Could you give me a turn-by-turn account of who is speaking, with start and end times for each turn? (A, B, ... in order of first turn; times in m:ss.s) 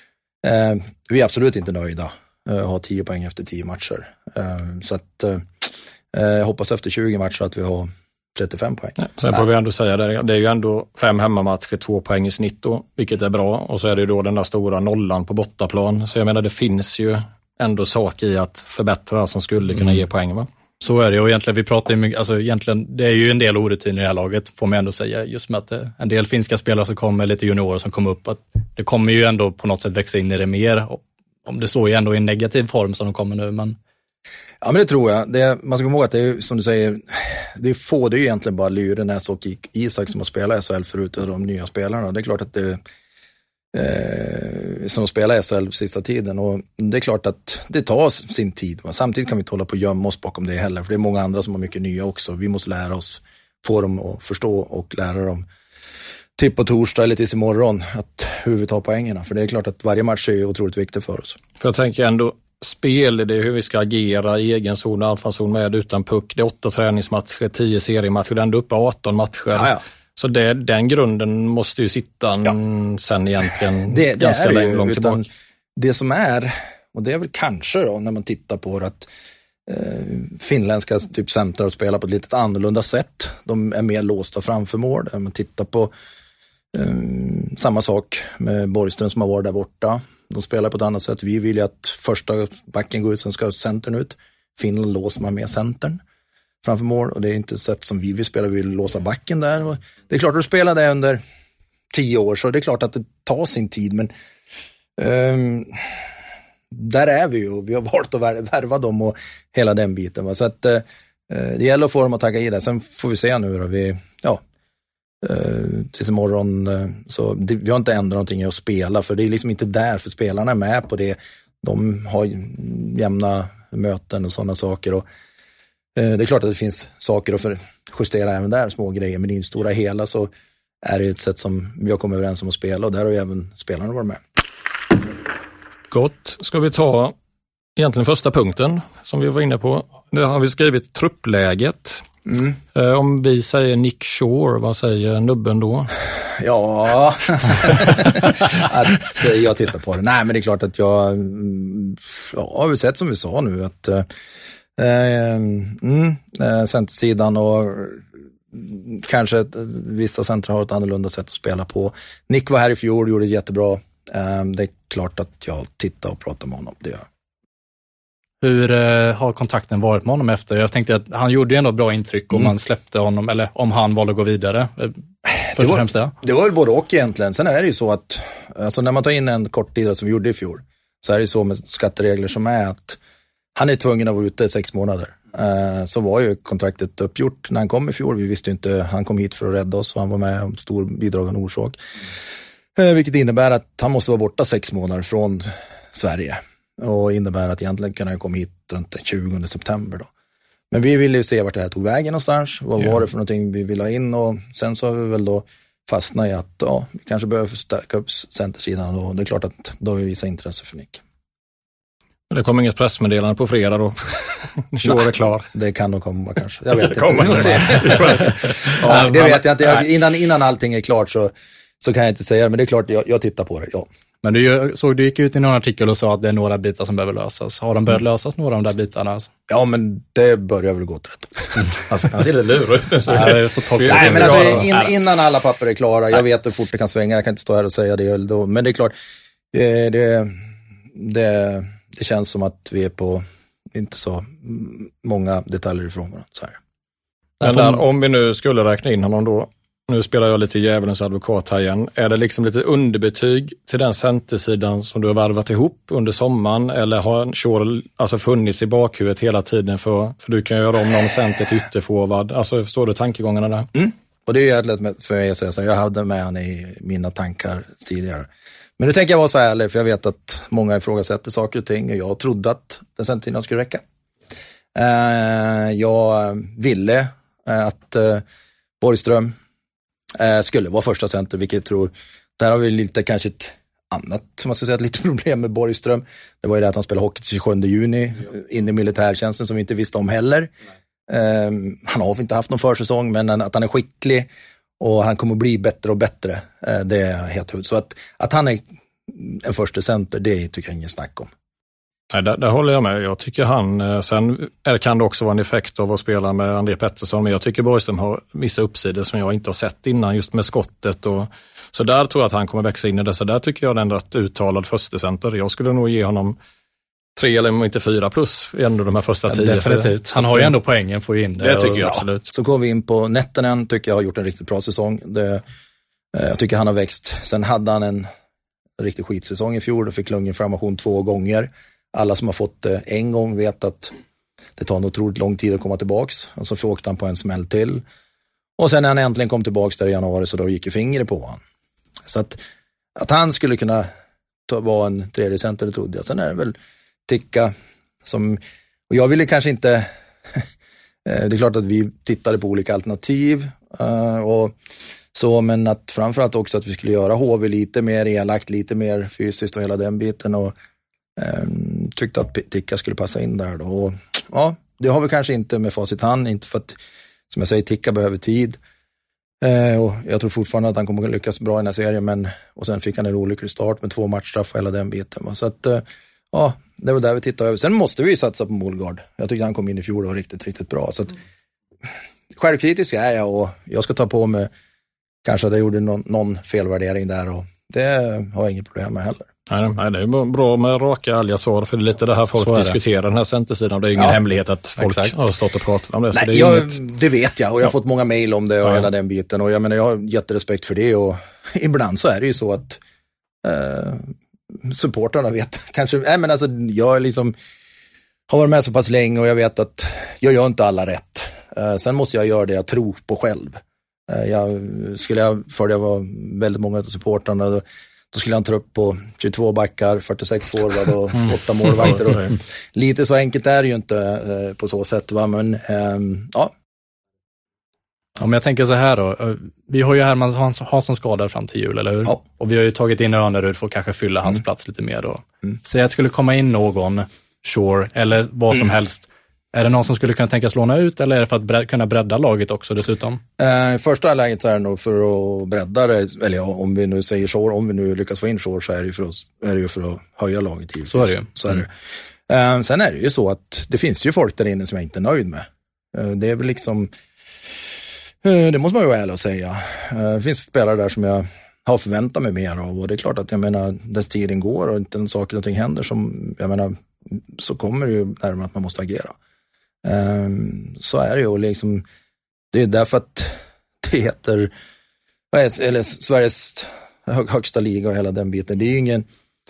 0:00.4-0:09.4 A
0:09.0-0:20.5 B
0:20.8-0:33.8 C
0:34.6-0:42.8 A
0:43.7-0:55.5 A
0:56.4-1:01.4 A
1:01.6-1:15.2 B
1:09.5-1:09.8 A
1:13.9-1:19.1 A
1:19.7-1:25.9 A
1:26.7-1:36.0 A
1:36.6-1:41.2 A
1:41.9-1:44.1 A
1:45.0-1:46.1 A
1:46.7-1:54.4 A
1:55.2-2:05.0 A
2:06.0-2:10.3 A
2:10.8-2:14.2 A
2:15.9-2:17.2 B
2:17.8-2:22.0 B
2:22.3-2:22.6 A
2:22.8-2:25.9 B
2:26.4-2:34.1 A
2:34.8-2:47.0 A
2:48.4-2:55.0 C
2:55.5-3:03.0 A
2:55.5-2:56.1 C
3:03.6-3:11.8 A
3:12.8-3:20.1 A
3:20.7-3:31.0 A
3:32.3-3:35.5 B
3:34.8-3:43.9 A
3:36.8-3:39.9 B
3:44.2-3:49.3 C
3:49.5-3:51.7 A
3:51.9-3:54.7 B
3:53.1-3:54.9 C
3:53.9-3:58.9 A
3:59.5-4:00.3 A
4:01.0-4:06.6 A
4:07.4-4:07.8 C
4:07.4-4:23.7 B
4:23.8-4:33.8 A
4:34.8-4:38.2 A
4:38.8-4:39.3 A
4:40.2-4:50.5 A
4:51.1-4:54.3 A
4:54.8-5:01.3 A
5:02.1-5:16.4 B
5:17.2-5:20.5 B
5:19.3-5:22.0 C
5:21.4-5:22.3 B
5:21.8-5:25.4 A
5:26.1-5:28.1 A
5:28.8-5:33.9 A
5:34.6-5:37.8 A
5:38.6-5:41.4 A
5:42.1-5:42.4 A
5:43.0-5:43.9 A
5:44.5-5:46.6 A
5:47.1-5:47.5 A
5:48.0-5:50.4 A
5:51.0-5:54.6 A
5:55.1-6:00.5 A
6:01.2-6:06.8 A
6:07.3-6:08.6 A
6:09.4-6:21.2 A
6:22.3-6:24.5 A
6:25.2-6:29.3 A
6:29.5-6:36.8 B
6:32.4-6:32.8 C
6:34.8-6:35.1 C
6:36.1-6:42.8 A
6:43.4-6:47.3 A
6:48.3-7:06.5 A
7:01.8-7:02.2 B
7:08.2-7:23.2 C
7:23.4-7:31.7 A
7:30.9-7:31.3 C
7:32.3-7:36.9 A
7:38.2-7:49.2 A
7:49.8-7:51.8 A
7:52.5-7:54.5 A
7:55.3-7:59.1 A